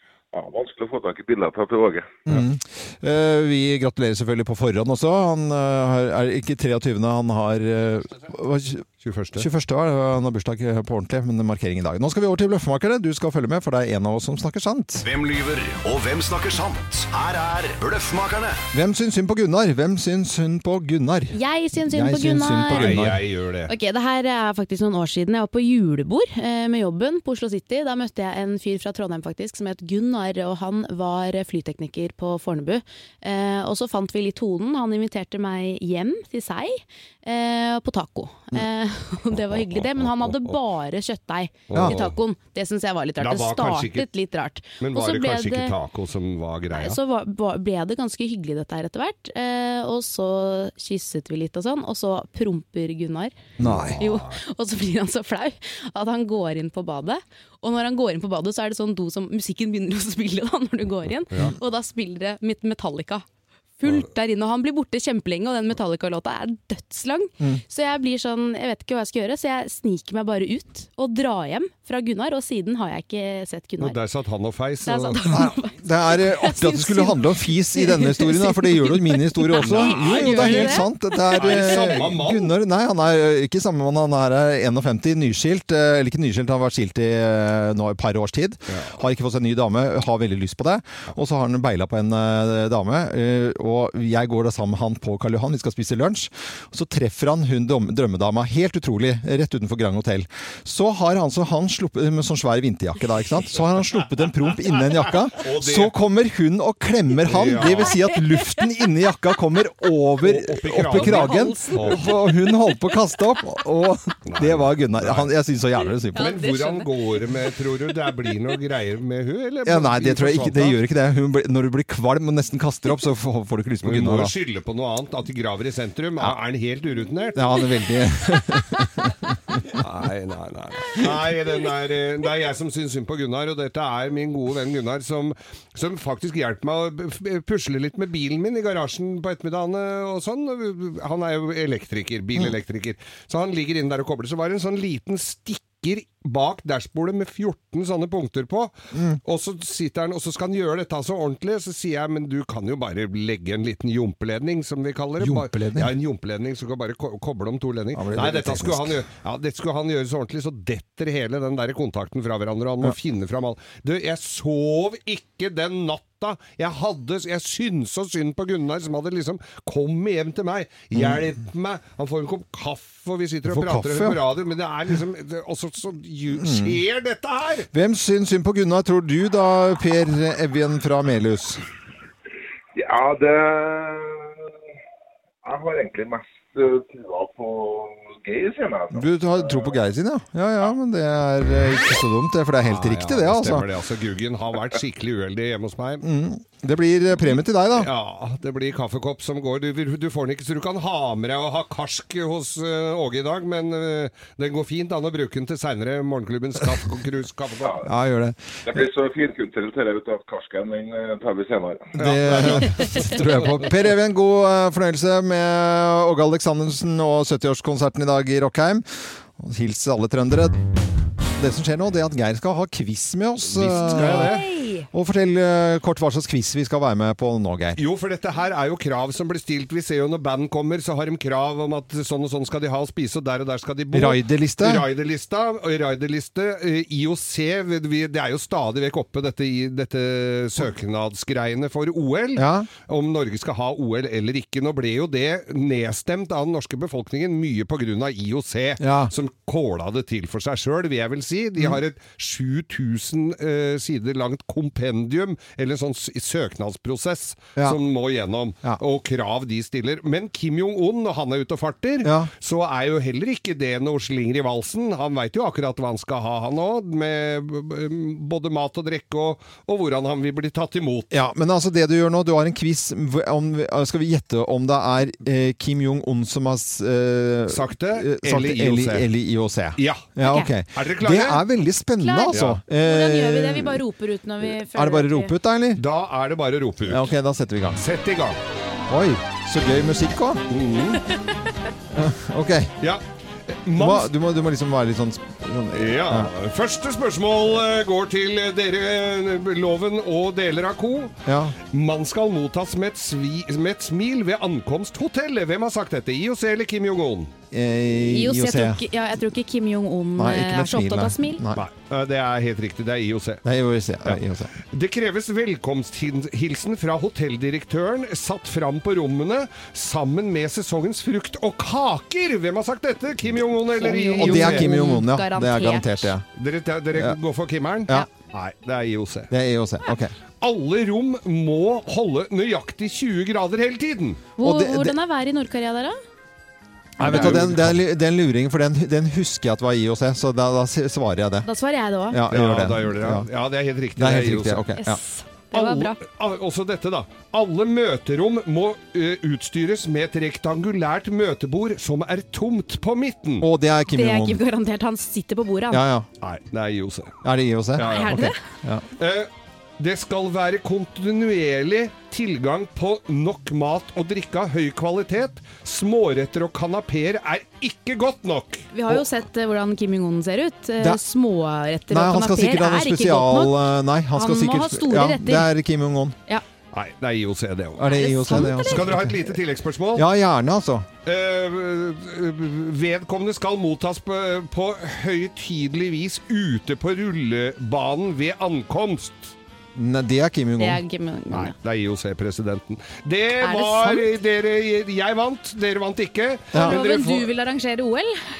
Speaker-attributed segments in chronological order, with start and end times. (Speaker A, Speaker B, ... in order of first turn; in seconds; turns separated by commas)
Speaker A: 0.3-2.2, Speaker B: 2.2-15.1, Speaker C: 9.0-9.5, Speaker D: 15.0-18.6, Speaker B: 18.7-23.2, Speaker E: 21.3-23.0, Speaker C: 22.7-23.7, Speaker E: 23.7-45.7, Speaker C: 39.5-40.5, Speaker C: 41.7-42.1, Speaker C: 43.2-44.1, Speaker C: 44.8-47.0, Speaker E: 46.7-53.3, Speaker B: 53.6-54.0, Speaker C: 53.6-54.3, Speaker E: 54.0-63.2, Speaker E: 63.8-74.0, Speaker C: 73.8-75.3, Speaker E: 74.8-81.6, Speaker B: 75.3-116.4, Speaker C: 79.6-82.5, Speaker C: 105.3-105.9, Speaker C: 107.2-108.0, Speaker C: 110.2-112.1, Speaker E: 110.9-112.3, Speaker C: 114.2-115.3, Speaker E: 116.1-116.9, Speaker C: 116.1-120.8, Speaker B: 119.6-124.3, Speaker C: 123.8-127.5, Speaker B: 127.3-129.8, Speaker C: 129.7-148.7, Speaker B: 148.9-149.2, Speaker C: 149.2-177.7, Speaker B: 155.2-155.9, Speaker B: 157.9-159.0, Speaker B: 170.9-171.2, Speaker B: 173.5-174.2, Speaker B: 176.3-176.8, Speaker B: 177.7-181.6, Speaker A: 182.7-184.5, Speaker A: 185.4-189.7, Speaker B: 188.9-193.7, Speaker C: 192.6-196.0, Speaker B: 196.0-197.9, Speaker C: 197.3-207.8, Speaker B: 207.8-208.8, Speaker A: 208.7-211.9, Speaker B: 212.0-220.6, Speaker C: 212.0-213.6, Speaker B: 221.4-224.4, Speaker C: 223.4-224.4, Speaker E: 223.8-224.9, Speaker B: 224.9-227.8, Speaker C: 227.8-271.1, Speaker B: 233.9-234.9, Speaker B: 242.4-242.7, Speaker B: 248.8-249.1, Speaker B: 262.0-262.3, Speaker B: 271.1-283.8, Speaker C: 277.5-279.1, Speaker C: 279.8-280.1, Speaker E: 280.2-280.5, Speaker C: 280.7-281.4, Speaker E: 282.0-285.3, Speaker C: 282.3-282.6, Speaker B: 284.6-285.8, Speaker C: 285.8-287.1, Speaker B: 286.9-287.9, Speaker C: 287.8-288.4, Speaker B: 288.9-290.4, Speaker C: 290.5-291.0, Speaker B: 291.9-292.8, Speaker C: 293.6-294.1, Speaker B: 293.7-296.3, Speaker C: 295.7-307.3, Speaker B: 301.2-301.6, Speaker B: 307.5-308.8, Speaker E: 308.0-311.4, Speaker B: 310.2-311.6, Speaker C: 311.5-313.4, Speaker B: 313.4-314.5, Speaker C: 314.7-324.7, Speaker E: 323.8-326.1, Speaker B: 323.9-326.2, Speaker C: 326.4-329.3, Speaker B: 329.3-330.1, Speaker C: 330.4-334.2, Speaker E: 334.4-336.0, Speaker B: 334.4-334.9, Speaker B: 337.0-341.5, Speaker C: 337.0-337.8, Speaker E: 341.4-342.2, Speaker B: 342.1-343.3, Speaker C: 342.3-344.7, Speaker B: 343.9-345.0, Speaker E: 344.8-346.0, Speaker C: 345.5-353.4, Speaker B: 353.4-354.4, Speaker E: 353.9-355.8, Speaker B: 355.7-356.1, Speaker C: 356.2-357.1, Speaker B: 357.2-358.8, Speaker C: 357.8-358.2, Speaker E: 357.8-358.4, Speaker C: 359.0-368.7, Speaker E: 368.7-373.6, Speaker B: 371.9-376.2, Speaker E: 374.1-375.5, Speaker C: 376.7-380.1, Speaker B: 377.8-379.4, Speaker E: 377.8-378.9, Speaker B: 379.9-380.9, Speaker C: 381.0-389.3, Speaker B: 389.7-390.8, Speaker E: 390.6-391.5, Speaker C: 391.3-397.3, Speaker E: 393.4-394.1, Speaker B: 396.5-396.8, Speaker E: 396.6-398.2